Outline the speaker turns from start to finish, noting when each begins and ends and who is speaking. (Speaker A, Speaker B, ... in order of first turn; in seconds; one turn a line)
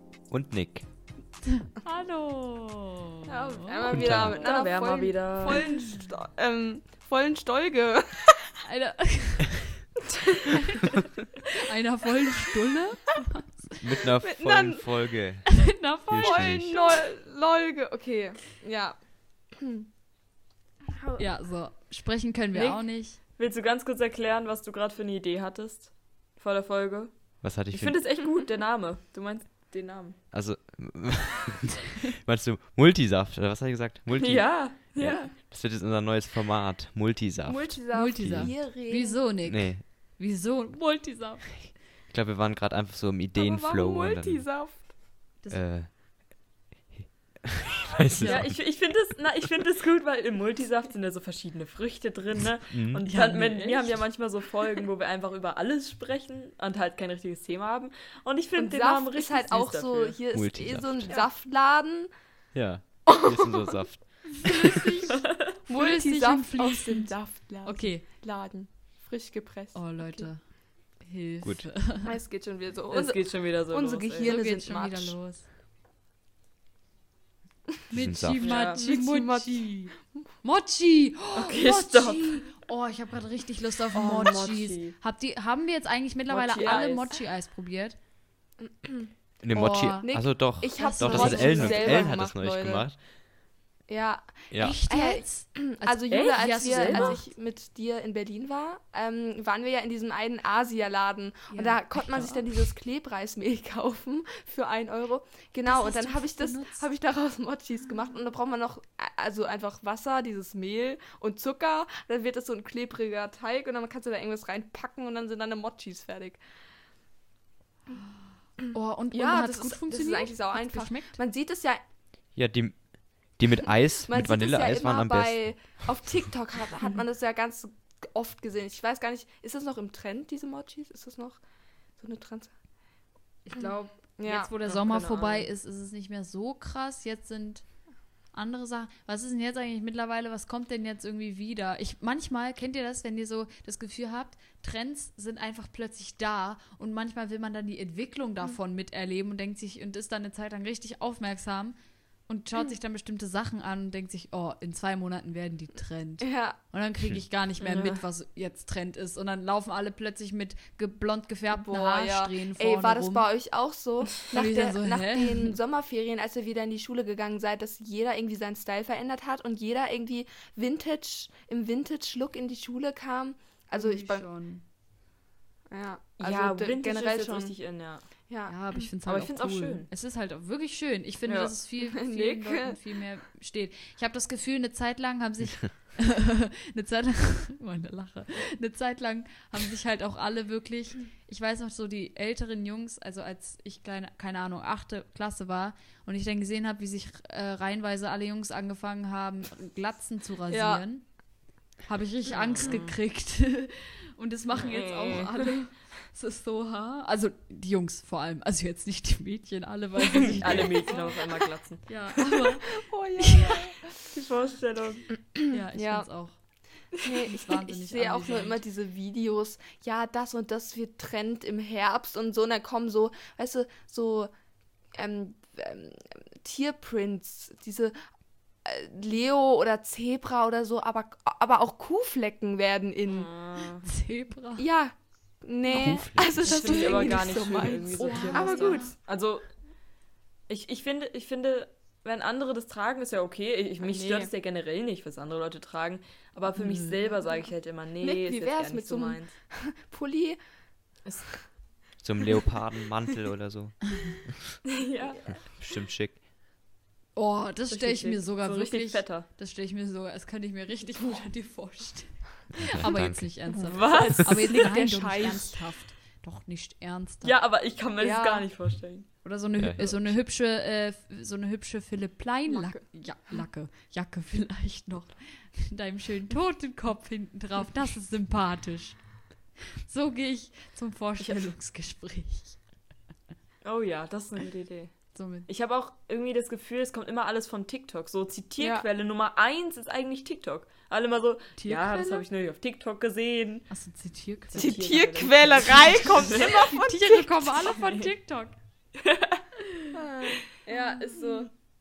Speaker A: 0.3-0.9
Speaker B: 1.4-4.2
Speaker C: 3.3-8.5
Speaker A: 3.9-4.4
Speaker D: 4.0-5.7
Speaker B: 5.7-6.1
Speaker B: 8.7-9.7
Speaker C: 10.2-10.5
Speaker B: 10.5-10.8
Speaker B: 11.5-13.7
Speaker A: 13.8-16.8
Speaker C: 14.2-14.8
Speaker B: 15.5-17.1
Speaker C: 16.2-19.9
Speaker C: 21.0-21.2
Speaker B: 21.2-23.2
Speaker D: 22.5-30.2
Speaker A: 27.4-28.0
Speaker A: 30.3-38.6
Speaker D: 34.2-35.3
Speaker C: 37.5-39.2
Speaker B: 37.9-41.7
Speaker A: 39.5-39.8
Speaker A: 42.1-44.4
Speaker C: 43.4-44.9
Speaker B: 45.4-45.7
Speaker A: 45.5-45.9
Speaker A: 46.9-48.6
Speaker B: 48.1-48.5
Speaker D: 48.2-60.2
Speaker A: 52.7-53.1
Speaker B: 53.1-53.9
Speaker C: 58.6-62.1
Speaker A: 60.3-61.1
Speaker A: 62.5-64.8
Speaker C: 63.1-63.8
Speaker B: 64.5-65.1
Speaker C: 64.7-64.9
Speaker C: 65.7-70.3
Speaker B: 65.7-68.0
Speaker B: 69.7-72.1
Speaker A: 71.4-71.7
Speaker C: 72.0-75.2
Speaker D: 72.9-74.3
Speaker B: 74.2-75.5
Speaker B: 77.9-88.0
Speaker A: 77.9-78.5
Speaker D: 78.4-78.8
Speaker C: 78.6-79.8
Speaker D: 81.3-82.5
Speaker D: 83.9-85.0
Speaker D: 86.3-87.2
Speaker C: 86.6-86.9
Speaker C: 88.6-89.1
Speaker A: 89.4-93.0
Speaker B: 89.5-90.2
Speaker C: 90.0-92.9
Speaker B: 90.8-92.1
Speaker C: 93.9-116.4
Speaker A: 94.5-94.8
Speaker B: 94.6-97.2
Speaker D: 96.1-97.2
Speaker B: 101.5-102.5
Speaker B: 105.7-106.8
Speaker B: 118.7-121.2
Speaker C: 119.1-121.8
Speaker A: 122.3-125.8
Speaker C: 124.0-131.4
Speaker C: 132.0-132.5
Speaker B: 133.5-137.7
Speaker C: 134.2-134.5
Speaker D: 134.7-135.5
Speaker B: 138.3-151.8
Speaker B: 152.3-163.3
Speaker C: 156.2-156.6
Speaker D: 157.6-158.0
Speaker C: 161.5-174.3
Speaker B: 164.3-165.6
Speaker B: 173.7-174.6
Speaker C: 175.7-177.5
Speaker D: 176.2-178.1
Speaker C: 178.3-178.5
Speaker B: 178.5-201.3
Speaker D: 179.1-179.9
Speaker D: 181.3-181.5
Speaker C: 181.8-182.8
Speaker C: 200.5-200.8
Speaker B: 201.8-213.8
Speaker D: 202.3-202.9
Speaker D: 204.5-205.4
Speaker D: 210.0-212.4
Speaker C: 212.7-214.0
Speaker D: 214.1-215.1
Speaker C: 215.2-216.1
Speaker B: 215.5-216.4
Speaker C: 216.9-224.3
Speaker B: 217.3-218.6
Speaker C: 224.9-228.0
Speaker C: 228.7-233.3
Speaker D: 233.1-233.9
Speaker B: 233.8-234.7
Speaker C: 234.6-238.9
Speaker A: 235.7-236.4
Speaker B: 235.7-237.2
Speaker D: 236.4-239.5
Speaker B: 237.9-238.9
Speaker D: 240.5-249.3
Speaker C: 243.8-244.3
Speaker C: 246.6-247.1
Speaker C: 248.0-250.4
Speaker A: 252.0-254.6
Speaker D: 254.7-255.3
Speaker A: 255.3-256.2
Speaker B: 257.1-267.4
Speaker D: 257.7-259.3
Speaker A: 262.6-263.6
Speaker D: 263.6-264.6
Speaker C: 263.9-265.6
Speaker D: 267.2-269.1
Speaker C: 268.0-268.5
Speaker B: 269.2-279.2
Speaker A: 269.6-270.1
Speaker C: 272.5-272.9
Speaker B: 279.8-282.6
Speaker D: 281.2-281.5
Speaker D: 283.6-293.7
Speaker B: 285.1-285.5
Speaker C: 288.6-288.9
Speaker B: 291.6-292.2
Speaker B: 293.7-294.8
Speaker D: 294.5-296.6
Speaker C: 294.6-297.5
Speaker B: 295.6-298.6
Speaker D: 297.7-298.1
Speaker D: 299.0-299.4
Speaker C: 299.9-301.5
Speaker D: 300.9-301.3